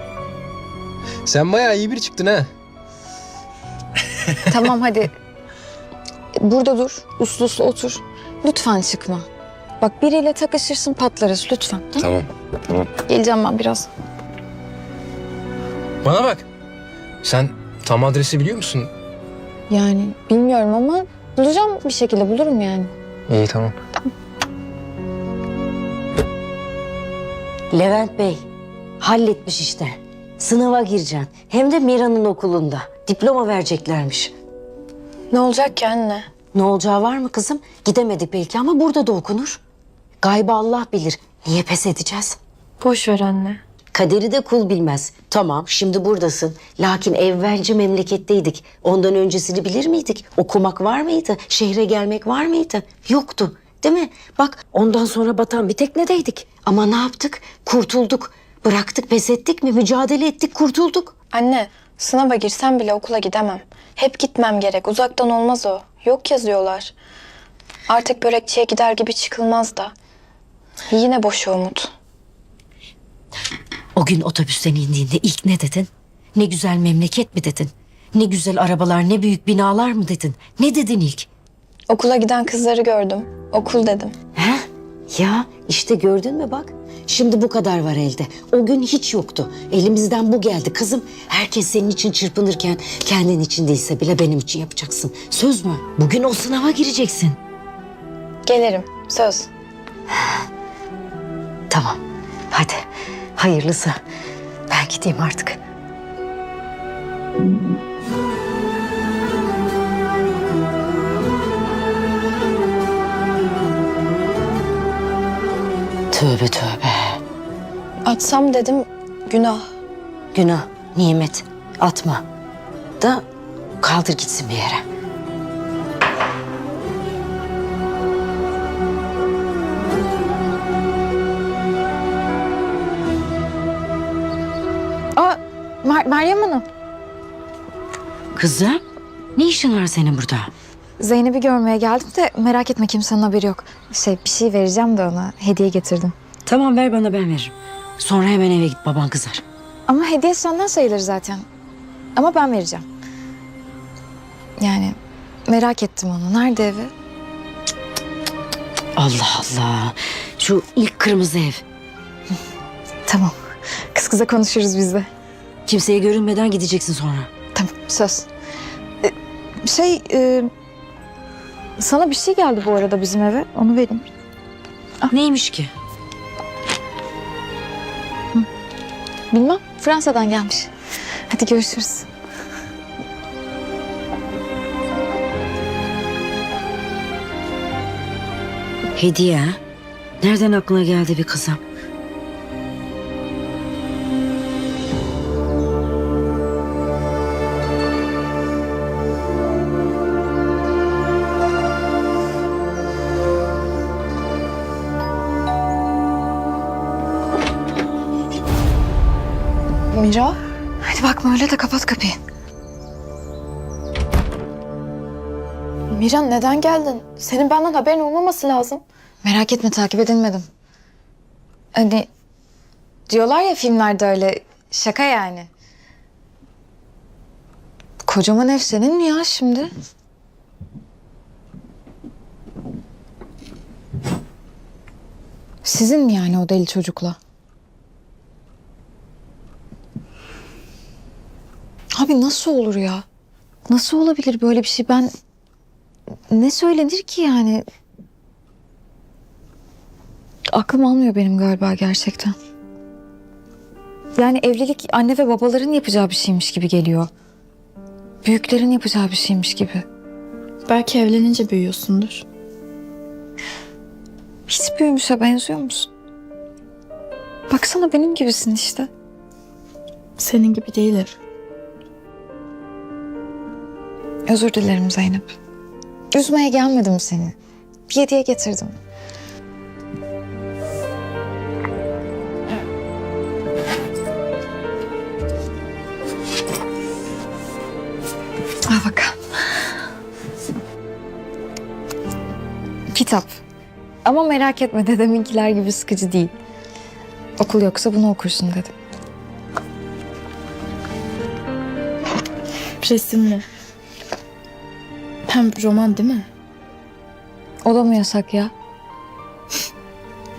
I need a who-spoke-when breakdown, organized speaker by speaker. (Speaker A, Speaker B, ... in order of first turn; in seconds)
Speaker A: 1.2-2.5, 12.0-12.3, 16.0-16.4, 17.2-18.9, 23.3-23.7
Speaker B: 4.5-5.1, 6.4-9.3, 9.8-12.1, 13.1-13.9, 19.7-22.9, 135.1-136.7, 141.0-146.1, 149.9-151.4, 152.2-152.8, 154.6-154.9, 155.5-156.9, 163.1-163.3, 163.9-165.1, 167.5-168.3, 169.0-170.5, 171.8-174.1, 179.3-180.7, 181.3-182.1, 210.8-212.2, 219.2-220.5, 221.7-222.1, 223.1-225.5, 228.0-229.7, 235.6-237.2, 241.9-243.0, 243.7-245.1, 246.3-247.6, 250.5-252.3, 254.2-257.1, 258.2-259.8, 264.5-265.9, 267.5-268.9, 274.3-275.3, 276.1-277.3, 277.9-278.8, 288.7-289.2, 292.9-293.3, 294.0-296.3, 297.4-298.7, 307.6-308.5
Speaker C: 27.7-28.4, 29.0-34.3, 36.5-39.6, 40.2-42.4, 43.9-61.1, 74.0-81.3, 84.3-97.4, 100.1-100.4, 101.7-102.8, 103.3-104.0, 104.7-105.6, 116.1-117.2, 120.3-122.2, 123.0-123.2, 123.8-124.8, 138.3-138.8, 139.3-140.5, 146.4-149.4, 159.0-161.6, 165.7-167.3, 175.1-175.7, 188.9-189.6, 190.2-191.6
Speaker D: 35.3-36.3, 42.8-43.6, 61.3-66.9, 67.9-69.9, 70.9-71.9, 81.9-84.1, 98.4-99.5, 118.0-119.7, 209.9-210.4, 215.9-218.8, 260.7-262.2, 270.2-271.1, 302.8-303.4, 305.3-306.3